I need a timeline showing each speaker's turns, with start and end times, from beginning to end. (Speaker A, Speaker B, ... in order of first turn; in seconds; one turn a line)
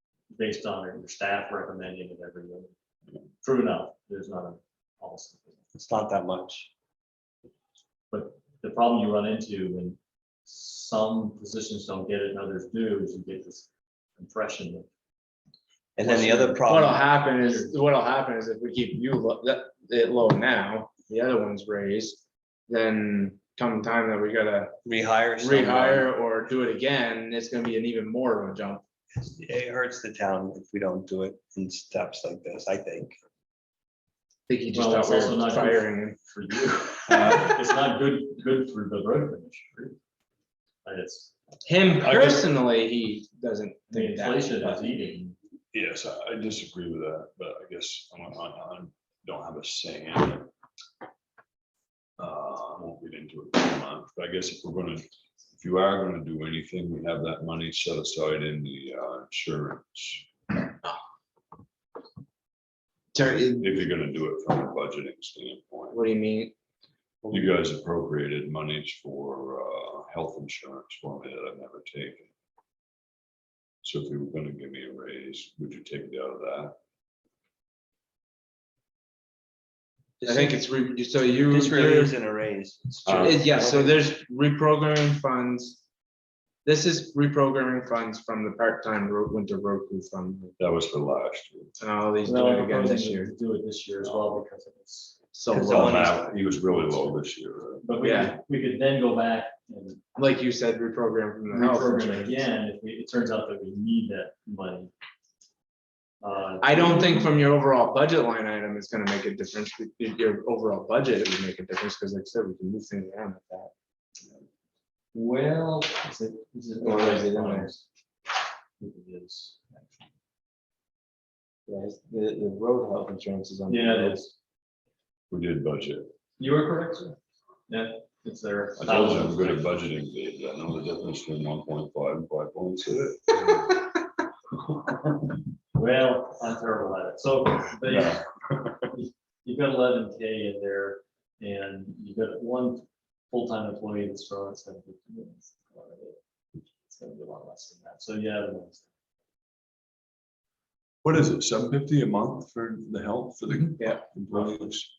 Speaker A: 0.3-2.7
Speaker A: 3.4-5.6
Speaker B: 5.7-6.7
Speaker A: 8.1-14.9
Speaker B: 16.0-17.0
Speaker A: 16.0-16.7
Speaker C: 16.6-24.8
Speaker A: 17.2-17.7
Speaker B: 24.8-26.1
Speaker C: 25.4-28.8
Speaker B: 29.2-33.2
Speaker C: 34.5-36.2
Speaker A: 34.7-40.0
Speaker C: 37.1-37.4
Speaker A: 40.9-41.4
Speaker C: 41.6-44.9
Speaker A: 41.9-42.5
Speaker A: 43.9-45.4
Speaker D: 45.7-50.5
Speaker D: 52.2-60.3
Speaker C: 63.1-63.8
Speaker D: 63.5-66.0
Speaker C: 65.9-66.5
Speaker C: 67.2-67.5
Speaker D: 67.3-72.3
Speaker D: 73.8-76.8
Speaker C: 80.2-82.2
Speaker B: 81.5-84.0
Speaker D: 83.1-83.4
Speaker C: 83.1-85.8
Speaker C: 86.7-90.6
Speaker D: 90.6-91.7
Speaker C: 91.8-93.3
Speaker A: 92.2-95.2
Speaker C: 95.3-96.2
Speaker B: 95.5-96.8
Speaker D: 95.6-97.8
Speaker A: 97.8-100.0
Speaker C: 98.0-98.4
Speaker C: 100.2-102.4
Speaker A: 101.5-104.9
Speaker A: 106.2-107.4
Speaker C: 106.6-113.7
Speaker A: 115.1-117.8
Speaker C: 116.8-117.7
Speaker A: 118.8-120.0
Speaker C: 121.7-124.2
Speaker A: 123.7-124.3
Speaker D: 125.3-126.1
Speaker A: 126.4-127.2
Speaker A: 127.7-129.6
Speaker D: 128.8-133.7
Speaker A: 135.7-138.2
Speaker D: 137.9-138.9
Speaker A: 139.0-146.2
Speaker A: 146.9-148.9
Speaker D: 151.0-154.9
Speaker A: 154.3-154.6